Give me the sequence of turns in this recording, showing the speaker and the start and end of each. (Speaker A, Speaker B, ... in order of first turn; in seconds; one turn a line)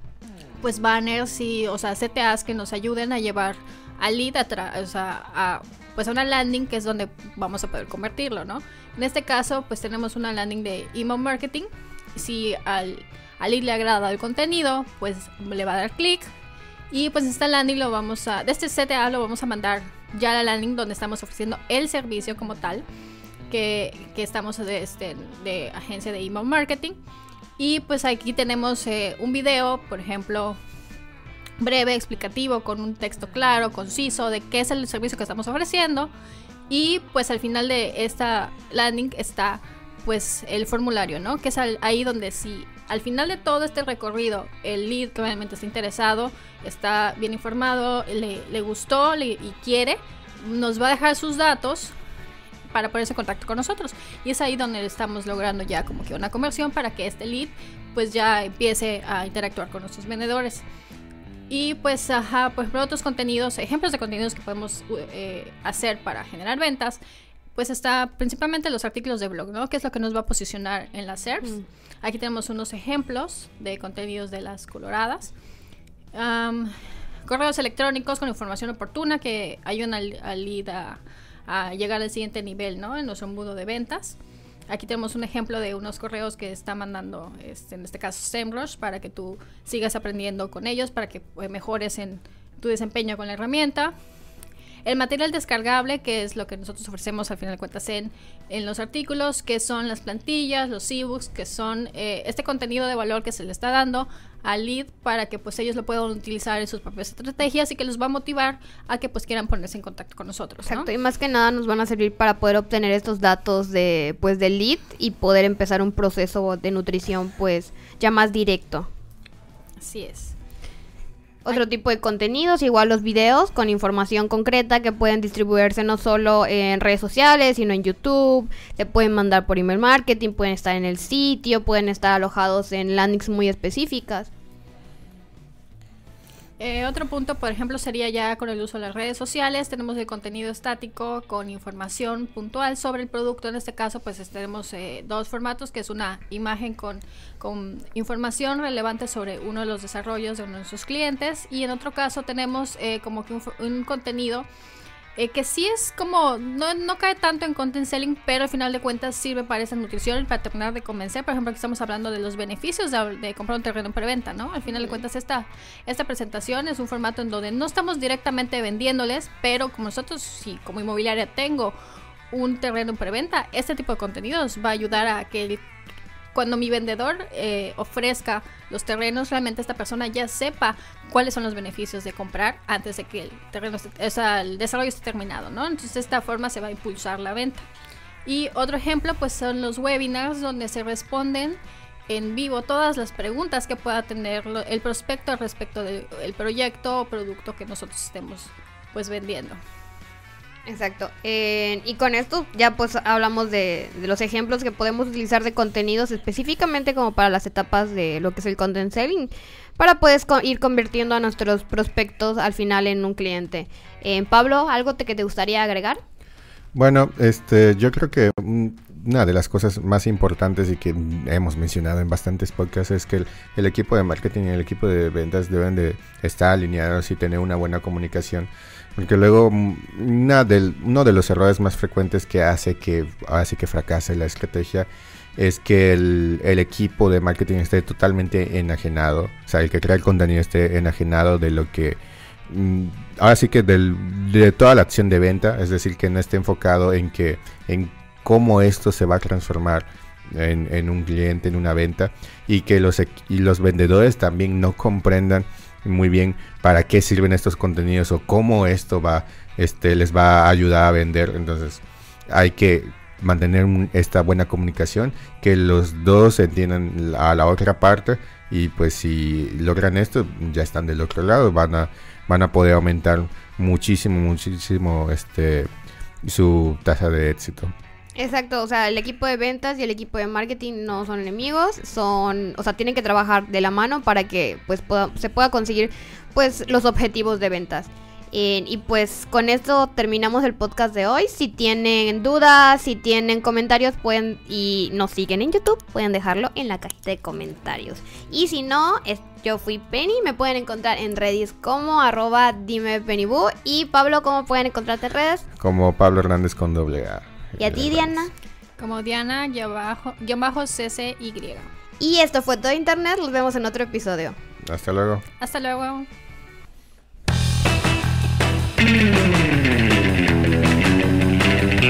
Speaker A: 0.6-16.3
Speaker A: 16.9-22.8
Speaker A: 23.5-26.9
Speaker A: 27.6-30.6
Speaker A: 31.6-36.1
Speaker A: 36.7-51.9
Speaker A: 52.7-60.6
Speaker A: 61.5-67.0
Speaker A: 67.5-75.3
Speaker A: 76.1-76.7
Speaker A: 77.2-84.2
Speaker A: 84.7-93.9
Speaker A: 94.8-110.9
Speaker B: 110.7-118.9
Speaker A: 119.8-120.3
Speaker B: 121.4-134.3
Speaker A: 136.6-154.5
Speaker A: 155.2-171.7
Speaker A: 172.3-175.6
Speaker A: 176.3-187.6
Speaker A: 188.2-199.6
Speaker B: 200.7-216.0
Speaker C: 216.7-275.7
Speaker C: 276.2-277.7
Speaker B: 278.2-305.4
Speaker C: 305.6-308.2
Speaker B: 307.6-308.3
Speaker A: 308.8-311.7
Speaker B: 312.0-314.4
Speaker C: 314.6-315.2
Speaker A: 315.4-316.1